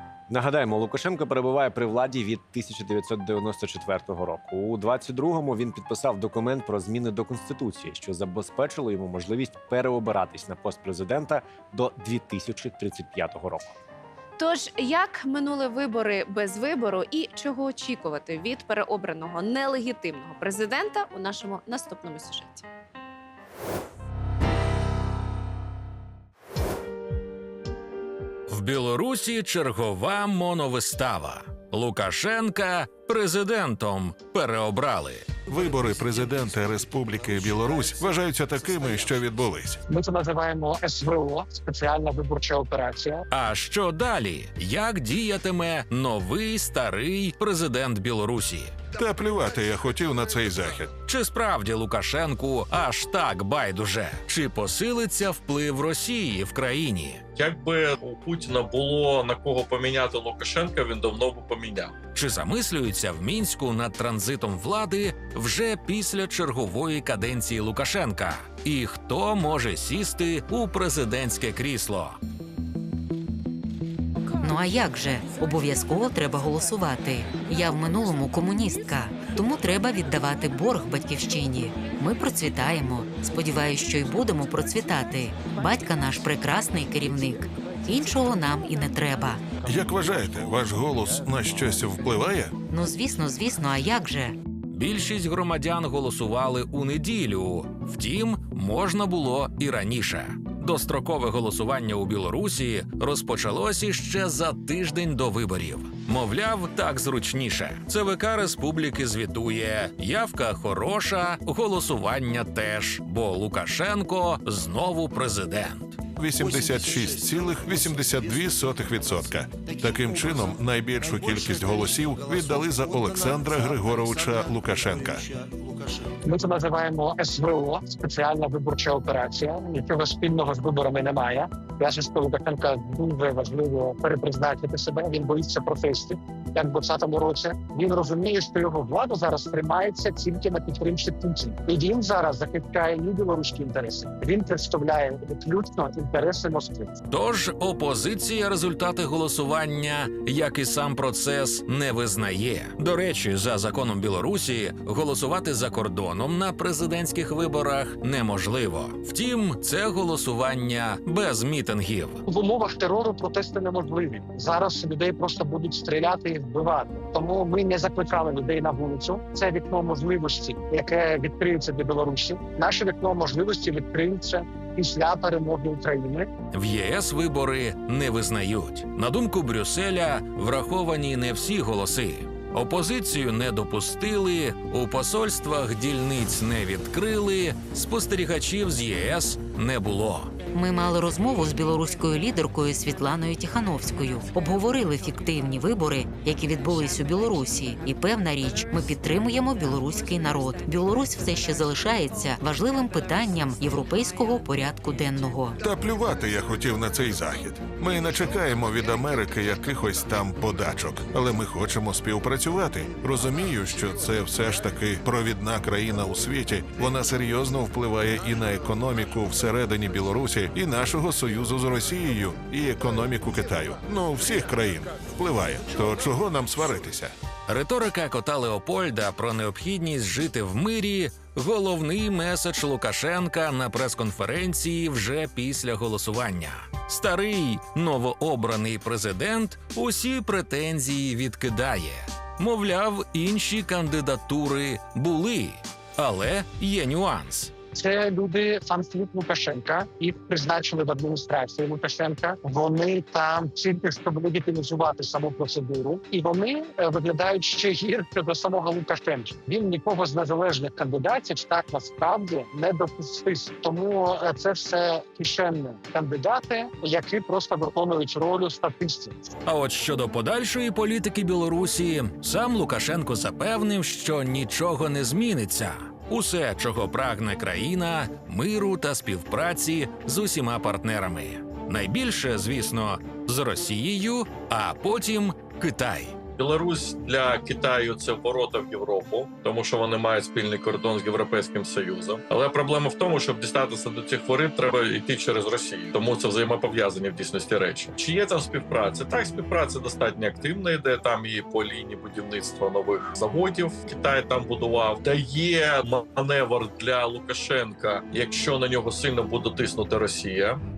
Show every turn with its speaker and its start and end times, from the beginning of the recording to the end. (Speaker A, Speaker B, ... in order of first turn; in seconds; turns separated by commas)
Speaker A: 0.3-13.7, Speaker B: 14.4-22.6, Speaker C: 28.5-35.3, Speaker D: 35.5-39.8, Speaker E: 39.9-43.2, Speaker C: 43.3-48.7, Speaker D: 48.9-50.9, Speaker C: 51.0-57.2, Speaker F: 57.3-62.0, Speaker C: 62.1-72.2, Speaker G: 74.4-89.4, Speaker D: 89.6-92.5, Speaker G: 92.7-94.3, Speaker C: 94.7-116.0, Speaker D: 116.2-125.2, Speaker E: 126.2-146.9, Speaker C: 147.1-162.2, Speaker E: 162.3-176.3, Speaker C: 176.5-190.3, Speaker G: 190.5-205.6, Speaker D: 205.6-227.1, Speaker C: 227.5-247.5, Speaker E: 247.7-269.2, Speaker C: 269.5-286.1, Speaker F: 286.4-310.6